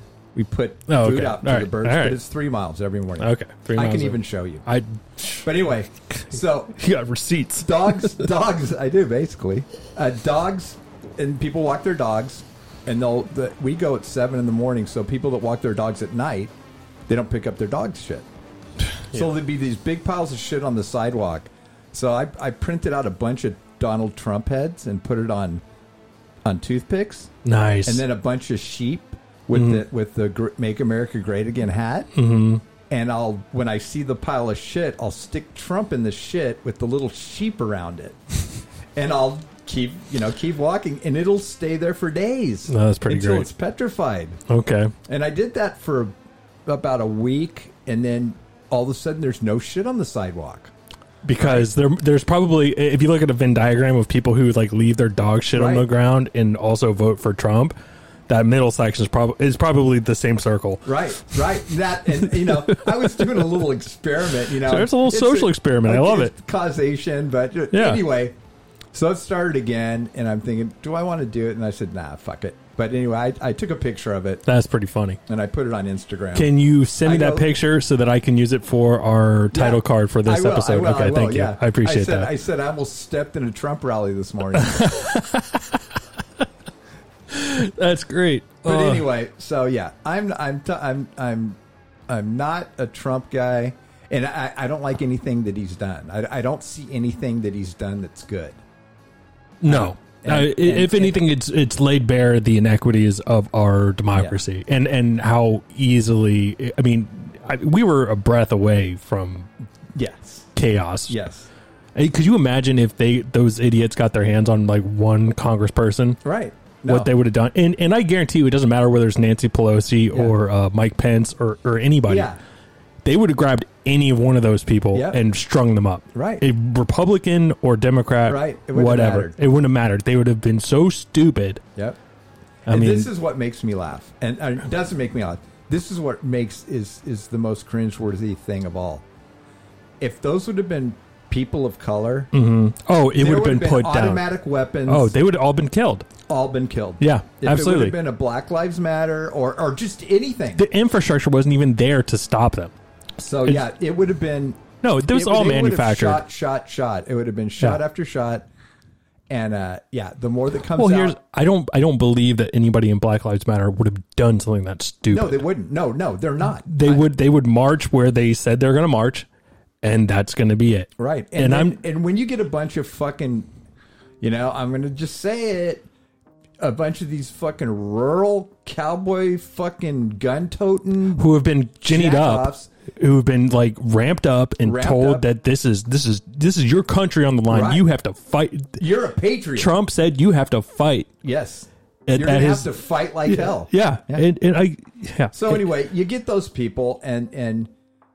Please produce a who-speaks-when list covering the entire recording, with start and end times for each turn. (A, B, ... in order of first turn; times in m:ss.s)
0:00.3-0:04.6 A
0:00.9-0:02.2 B
0:03.2-0:05.5 B
0:05.4-0:06.8 A
0:06.2-0:08.3 B
0:07.6-0:16.5 A
0:17.1-0:18.3 A
0:19.1-0:25.6 A
0:26.4-0:27.3 A
0:27.4-0:28.0 B
0:27.8-0:32.1 A
0:29.6-0:29.8 B
0:32.2-0:32.6 B
0:32.9-0:38.2 A
0:39.0-0:44.4 A
0:42.7-0:43.5 B
0:44.5-0:44.9 B
0:45.1-0:46.2 A
0:46.7-0:50.7 A
0:51.2-0:57.8 B
0:51.4-0:51.7 A
0:55.5-0:55.9 A
0:58.3-1:01.4 B
1:00.8-1:08.4 A
1:02.4-1:03.4 B
1:04.4-1:06.3 B
1:07.7-1:08.0 B
1:08.9-1:14.4 A
1:14.4-1:15.2 B
1:15.3-1:17.5 A
1:16.4-1:22.3 B
1:19.5-1:25.0 A
1:24.6-1:25.8 B
1:27.3-1:29.1 B
1:28.6-1:38.6 A
1:39.6-1:49.5 B
1:39.7-1:41.2 A
1:44.1-1:44.4 A
1:50.0-1:50.5 A
1:50.6-1:51.2 B
1:51.1-1:51.5 A
1:52.0-1:56.2 B
1:56.2-1:57.1 A
1:56.9-2:02.3 B
2:02.1-2:02.4 A
2:03.0-2:11.6 B
2:04.9-2:05.2 A
2:06.1-2:06.4 A
2:08.3-2:09.4 A
2:12.7-2:13.1 B
2:12.7-2:19.0 A
2:20.0-2:22.3 A
2:22.3-2:24.2 B
2:23.2-2:25.1 A
2:24.9-2:26.1 B
2:26.3-2:30.7 A
2:27.0-2:28.0 B
2:30.6-2:32.7 B
2:33.2-2:38.5 A
2:34.8-2:36.2 B
2:39.3-2:41.2 A
2:40.8-2:45.4 B
2:45.1-2:47.0 A
2:46.6-2:49.3 B
2:49.8-2:51.8 B
2:51.0-2:53.5 A
2:54.2-2:55.9 A
2:56.6-3:01.3 A
3:01.2-3:08.8 B
3:01.9-3:02.7 A
3:04.6-3:05.3 A
3:07.5-3:07.8 A
3:08.8-3:09.7 A
3:09.6-3:11.1 B
3:11.2-3:14.3 A
3:12.1-3:12.7 B
3:13.2-3:15.7 B
3:15.3-3:17.7 A